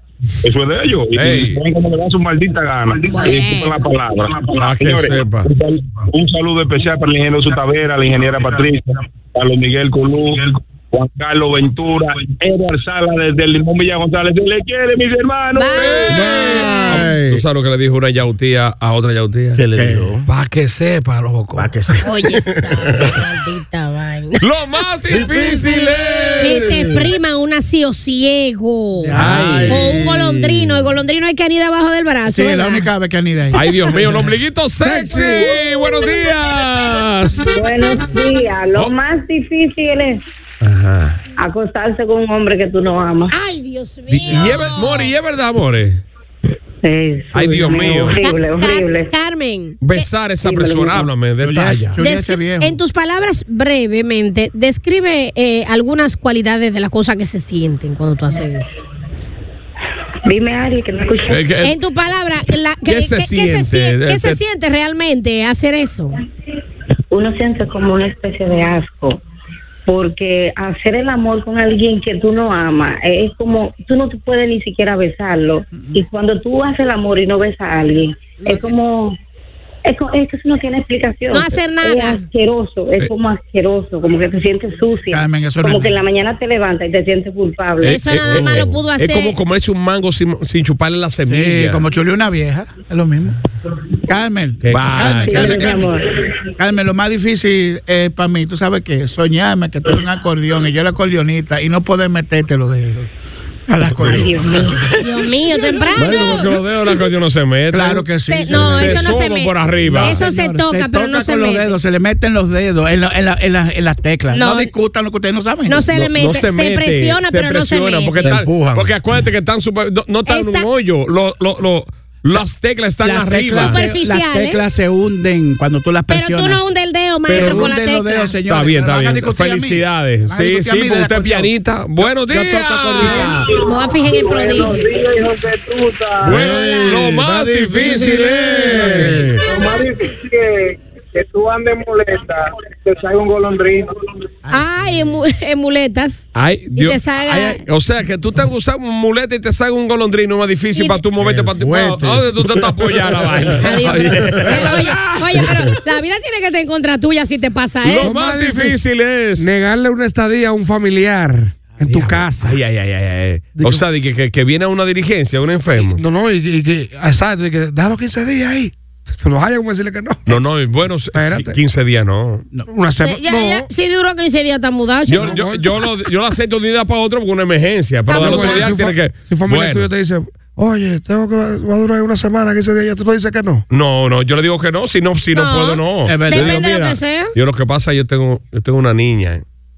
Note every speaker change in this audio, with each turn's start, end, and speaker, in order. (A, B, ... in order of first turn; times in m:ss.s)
0:00.4-0:16.0 A
0:01.1-0:01.6 B
0:03.1-0:03.8 C
0:04.6-0:05.5 B
0:15.6-0:17.1 C
0:15.8-0:21.7 B
0:16.2-0:17.4 D
0:19.5-0:20.2 D
0:21.6-0:23.2 D
0:22.0-0:24.4 C
0:24.4-0:26.6 B
0:25.1-0:27.1 D
0:26.4-0:32.8 C
0:29.0-0:29.7 E
0:29.1-0:29.8 B
0:29.2-0:31.0 D
0:32.2-0:34.3 E
0:33.5-0:37.5 B
0:34.8-0:35.6 F
0:37.5-0:40.2 G
0:40.6-0:41.2 B
0:41.4-0:43.3 G
0:43.3-0:45.1 C
0:44.1-0:46.0 B
0:44.3-0:44.6 E
0:46.8-0:49.1 G
0:47.3-0:48.2 B
0:48.2-0:50.1 C
0:49.8-0:51.9 B
0:50.4-0:51.1 G
0:51.4-0:52.8 E
0:52.0-0:58.8 C
1:00.2-1:01.4 G
1:01.3-1:01.7 B
1:01.6-1:06.1 C
1:02.9-1:04.4 B
1:07.1-1:09.2 G
1:09.8-1:19.2 G
1:15.7-1:16.0 E
1:18.4-1:18.7 C
1:19.8-1:28.0 G
1:21.3-1:22.2 C
1:25.1-1:26.0 E
1:27.8-1:29.3 C
1:27.8-1:31.8 B
1:31.2-1:33.4 E
1:34.0-1:35.9 E
1:34.7-1:35.1 D
1:34.7-1:35.8 B
1:35.2-1:36.0 G
1:36.6-1:43.1 E
1:43.7-1:46.2 E
1:44.2-1:44.6 G
1:45.0-1:46.5 C
1:46.0-1:46.5 D
1:46.1-1:50.3 B
1:47.7-1:55.9 E
1:48.3-1:51.8 C
1:54.3-1:54.7 C
1:55.7-1:58.2 C
1:55.9-2:03.8 B
1:58.2-1:58.9 D
2:00.3-2:00.7 C
2:03.0-2:06.6 E
2:03.5-2:04.6 C
2:06.1-2:08.4 C
2:07.2-2:13.3 E
2:07.4-2:07.6 B
2:08.5-2:13.5 B
2:13.6-2:14.8 C
2:14.0-2:16.3 H
2:16.2-2:19.3 B
2:16.2-2:19.4 D
2:16.4-2:16.8 C
2:19.4-2:23.8 H
2:24.4-2:25.2 E
2:24.5-2:27.6 C
2:26.3-2:35.0 B
2:30.7-2:31.0 C
2:31.2-2:33.6 D
2:33.6-2:38.2 C
2:34.2-2:34.6 D
2:37.8-2:39.5 B
2:38.0-2:38.8 F
2:39.4-2:42.6 F
2:42.4-2:46.0 B
2:43.6-2:43.8 F
2:45.8-2:50.4 F
2:50.3-2:52.5 B
2:51.1-2:51.6 F
2:52.7-2:53.7 F
2:53.0-2:55.4 C
2:55.1-2:59.9 B
2:55.2-2:55.9 F
2:58.1-2:58.8 C
2:58.1-3:03.6 F
3:03.7-3:09.4 B
3:05.3-3:07.3 C
3:06.0-3:06.6 E